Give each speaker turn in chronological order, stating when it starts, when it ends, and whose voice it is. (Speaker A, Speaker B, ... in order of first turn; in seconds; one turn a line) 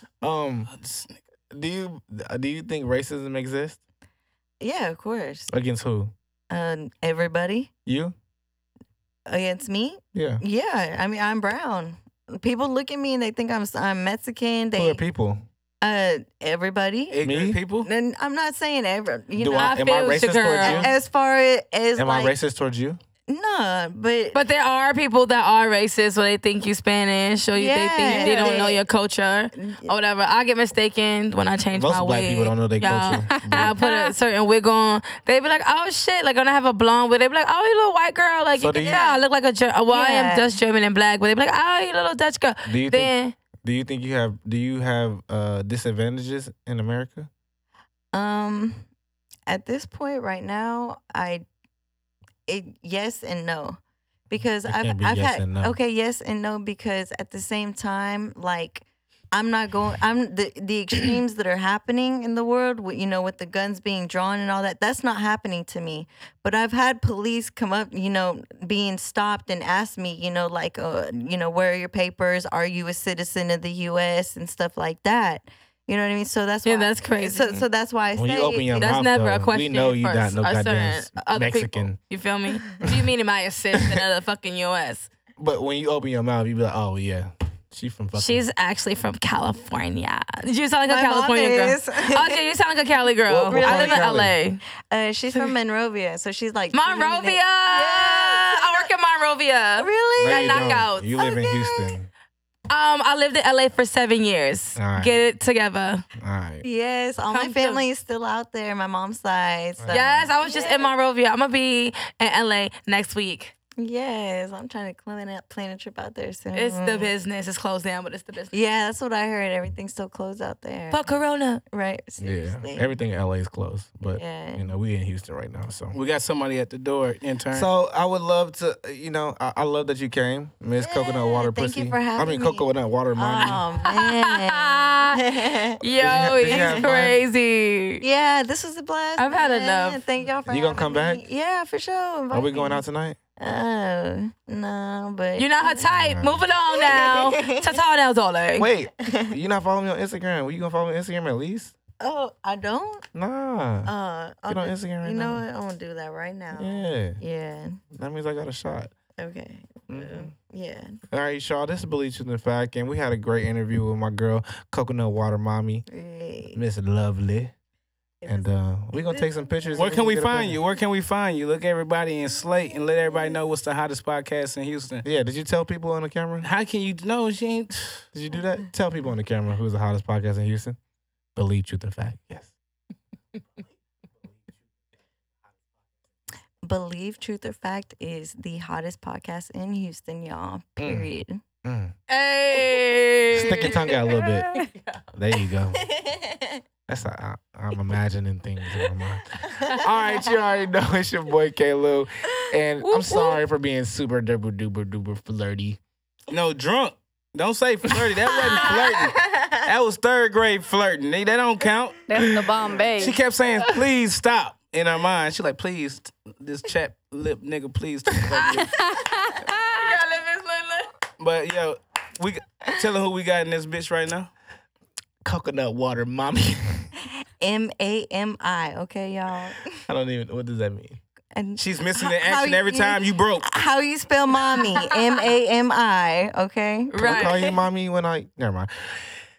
Speaker A: 0.2-0.7
Speaker B: 0.7-1.2
Speaker A: 1.5-3.8
Speaker C: 4.6-5.5
Speaker A: 5.5-6.1
Speaker C: 6.5-7.7
Speaker A: 7.8-8.1
Speaker C: 9.3-15.0
Speaker A: 10.1-10.4
Speaker A: 14.8-15.4
Speaker C: 15.8-17.2
Speaker B: 17.1-17.9
Speaker A: 17.2-17.6
Speaker C: 17.8-19.8
Speaker A: 19.4-20.9
Speaker D: 19.5-20.9
Speaker C: 20.6-22.3
Speaker A: 21.9-23.0
Speaker C: 23.3-24.4
Speaker D: 24.3-43.4
Speaker C: 27.5-28.8
Speaker E: 28.1-28.8
Speaker C: 29.5-29.9
Speaker A: 31.7-33.7
Speaker E: 33.0-34.1
Speaker A: 38.5-39.0
Speaker C: 38.7-39.2
Speaker C: 39.9-40.5
Speaker A: 42.6-47.3
Speaker C: 48.1-48.9
Speaker C: 49.5-51.4
Speaker C: 52.5-78.9
Speaker A: 54.6-55.8
Speaker D: 76.6-77.7
Speaker A: 78.2-82.0
Speaker D: 78.7-85.1
Speaker A: 83.7-84.0
Speaker A: 85.4-88.4
Speaker D: 88.2-94.6
Speaker C: 90.8-92.4
Speaker A: 93.3-94.3
Speaker C: 93.5-94.1
Speaker C: 94.8-98.9
Speaker D: 95.3-95.5
Speaker D: 96.7-101.1
Speaker C: 99.8-101.9
Speaker A: 100.2-102.1
Speaker D: 102.7-106.0
Speaker A: 104.8-105.2
Speaker A: 106.2-106.6
Speaker C: 106.6-110.9
Speaker D: 107.3-107.8
Speaker A: 109.8-110.3
Speaker D: 109.9-113.5
Speaker C: 113.8-117.1
Speaker D: 116.5-118.5
Speaker C: 118.5-121.0
Speaker D: 120.9-121.6
Speaker C: 121.6-122.9
Speaker A: 122.2-126.0
Speaker C: 124.1-124.6
Speaker B: 125.9-127.7
Speaker A: 127.5-133.6
Speaker C: 130.8-136.9
Speaker D: 133.8-135.2
Speaker D: 135.8-138.0
Speaker A: 135.9-137.2
Speaker C: 138.0-142.8
Speaker D: 139.2-140.0
Speaker A: 140.5-141.2
Speaker A: 142.3-143.2
Speaker C: 143.4-145.9
Speaker D: 145.3-148.7
Speaker A: 145.9-146.4
Speaker C: 146.7-147.8
Speaker A: 148.6-151.8
Speaker C: 149.0-149.3
Speaker C: 152.0-153.1
Speaker A: 153.1-153.9
Speaker C: 153.8-157.8
Speaker A: 154.5-155.4
Speaker A: 156.5-157.2
Speaker A: 157.9-158.9
Speaker C: 159.2-161.0
Speaker A: 159.9-160.3
Speaker A: 161.1-165.8
Speaker C: 165.9-166.6
Speaker A: 166.5-167.5
Speaker C: 168.2-169.8
Speaker A: 168.2-170.6
Speaker B: 169.7-175.1
Speaker A: 175.0-176.5
Speaker B: 176.4-178.1
Speaker A: 178.1-180.8
Speaker A: 181.3-182.5
Speaker C: 186.6-191.4
Speaker A: 190.8-191.1
Speaker A: 191.6-191.9
Speaker D: 192.1-195.1
Speaker A: 193.3-194.5
Speaker A: 195.1-195.8
Speaker C: 195.8-196.6
Speaker A: 196.9-205.8
Speaker D: 202.8-203.4
Speaker B: 206.3-212.1
Speaker C: 208.3-209.5
Speaker E: 212.1-213.2
Speaker B: 213.0-218.8
Speaker D: 218.3-220.9
Speaker B: 221.2-224.3
Speaker A: 225.2-226.9
Speaker C: 227.4-229.7
Speaker A: 229.9-231.0
Speaker C: 231.3-237.6
Speaker B: 231.6-233.5
Speaker D: 236.9-237.4
Speaker A: 237.0-239.1